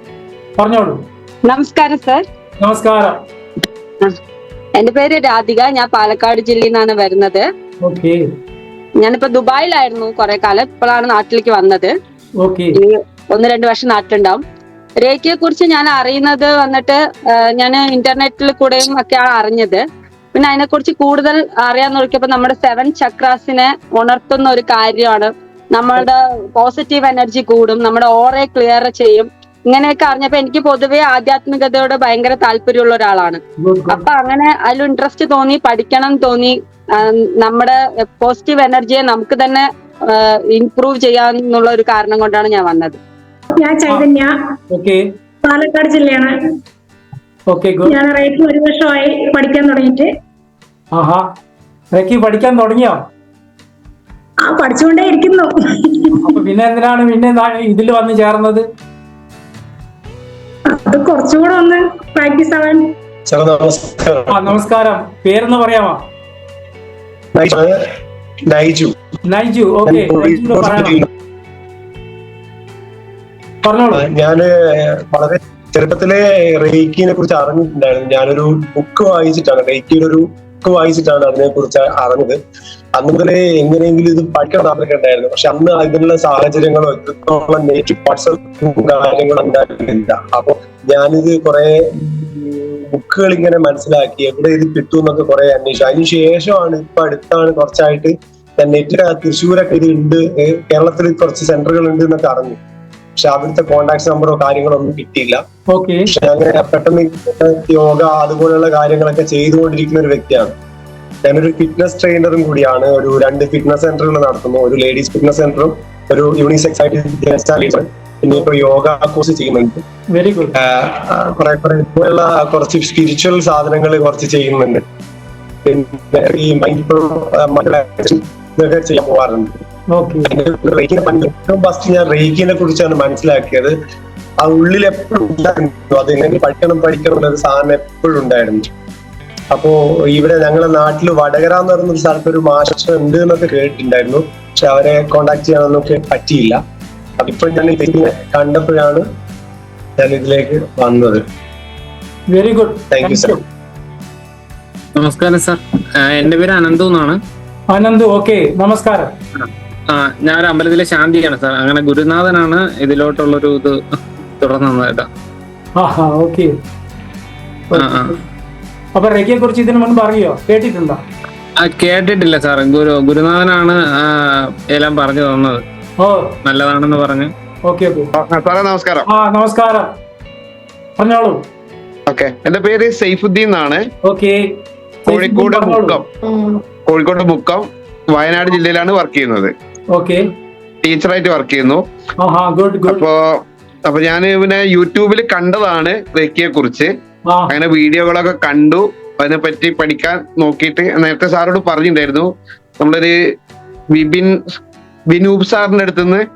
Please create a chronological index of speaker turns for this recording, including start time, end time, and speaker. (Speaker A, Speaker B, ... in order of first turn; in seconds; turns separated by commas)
Speaker A: 0.6-1.0, Speaker B: 1.5-2.2, Speaker A: 2.6-3.2, Speaker B: 4.8-7.4, Speaker A: 7.8-8.2, Speaker B: 9.0-11.9, Speaker A: 12.4-12.8, Speaker B: 12.8-14.4, Speaker B: 15.0-19.8, Speaker B: 20.4-43.0, Speaker A: 33.6-34.0, Speaker C: 43.5-44.6, Speaker A: 44.7-45.0, Speaker C: 45.4-46.6, Speaker A: 47.5-48.0, Speaker C: 47.8-50.2, Speaker A: 50.9-51.2, Speaker A: 51.9-53.0, Speaker C: 54.4-56.4, Speaker A: 56.2-58.6, Speaker C: 60.7-63.0, Speaker D: 63.3-64.5, Speaker A: 64.3-66.0, Speaker D: 67.3-67.7, Speaker D: 68.5-68.9, Speaker A: 69.3-71.0, Speaker D: 69.9-71.1, Speaker A: 73.6-74.0, Speaker D: 74.0-82.4, Speaker D: 83.0-102.6, Speaker D: 103.2-105.4, Speaker A: 105.7-106.1, Speaker D: 106.1-110.5, Speaker D: 111.2-119.8, Speaker A: 120.1-120.5, Speaker D: 120.6-124.8, Speaker D: 125.7-129.6, Speaker A: 129.9-130.3, Speaker D: 130.3-133.7, Speaker D: 134.4-138.6, Speaker D: 139.5-146.6, Speaker D: 147.2-149.0, Speaker D: 150.0-151.2, Speaker A: 152.3-153.4, Speaker D: 152.9-153.4, Speaker E: 155.0-157.2, Speaker A: 157.7-159.1, Speaker E: 159.9-163.8, Speaker E: 164.4-165.1, Speaker A: 165.8-166.5, Speaker A: 167.7-168.2, Speaker E: 167.8-168.1, Speaker A: 168.9-171.0, Speaker E: 171.6-174.2, Speaker E: 174.7-175.6, Speaker A: 176.0-176.3, Speaker E: 176.4-177.3, Speaker A: 177.7-178.1, Speaker F: 178.2-179.1, Speaker A: 179.1-179.9, Speaker A: 181.0-181.4, Speaker F: 182.1-183.9, Speaker A: 184.1-184.4, Speaker A: 185.0-186.0, Speaker F: 185.1-186.1, Speaker F: 186.8-189.5, Speaker A: 189.9-190.2, Speaker F: 190.8-191.8, Speaker A: 192.2-193.1, Speaker F: 192.9-196.9, Speaker A: 197.3-197.6, Speaker F: 197.5-203.2, Speaker F: 203.9-204.6, Speaker F: 205.1-206.3